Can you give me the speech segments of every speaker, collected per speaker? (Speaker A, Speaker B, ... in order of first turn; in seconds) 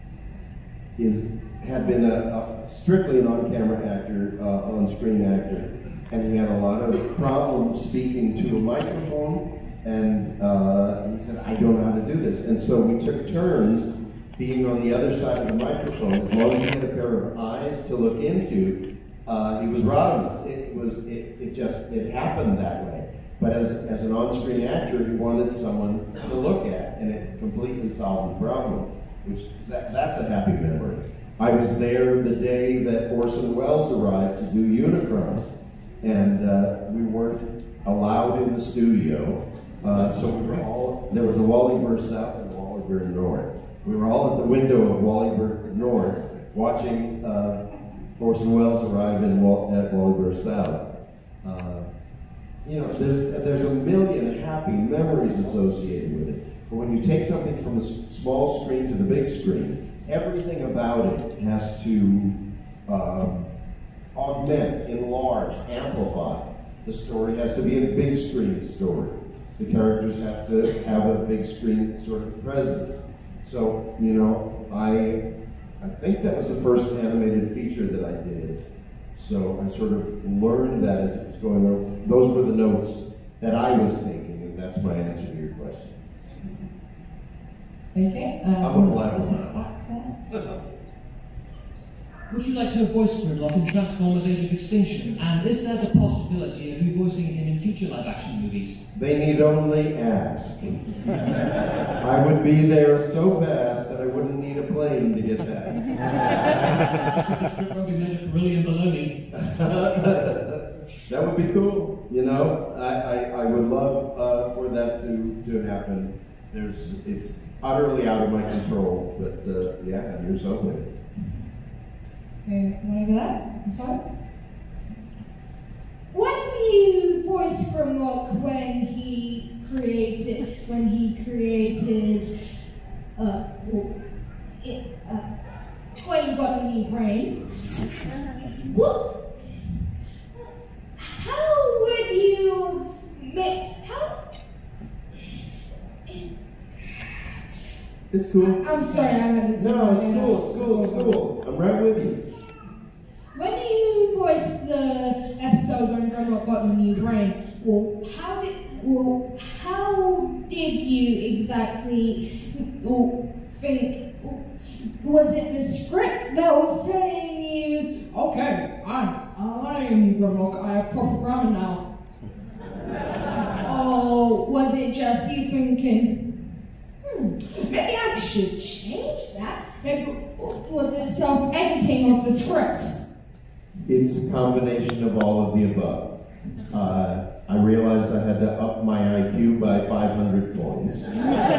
Speaker A: 1.0-35.5, 36.0-47.6, 48.2-50.8, 51.4-51.9, 52.6-62.4, 62.9-63.5, 64.1-75.2, 75.8-78.6, 79.1-86.0, 88.6-89.6, 98.9-100.8, 102.0-105.8, 109.3-120.8, 148.1-152.2, 183.8-186.1, 186.7-191.2
Speaker B: 87.9-90.2, 122.4-124.0
Speaker C: 92.3-98.8, 107.1-109.2
Speaker D: 126.1-132.3, 133.2-133.9, 134.6-135.2, 135.9-137.3, 138.6-139.4, 141.0-144.2, 146.1-147.3, 148.6-151.2, 153.3-171.8, 173.6-176.2, 177.0-183.0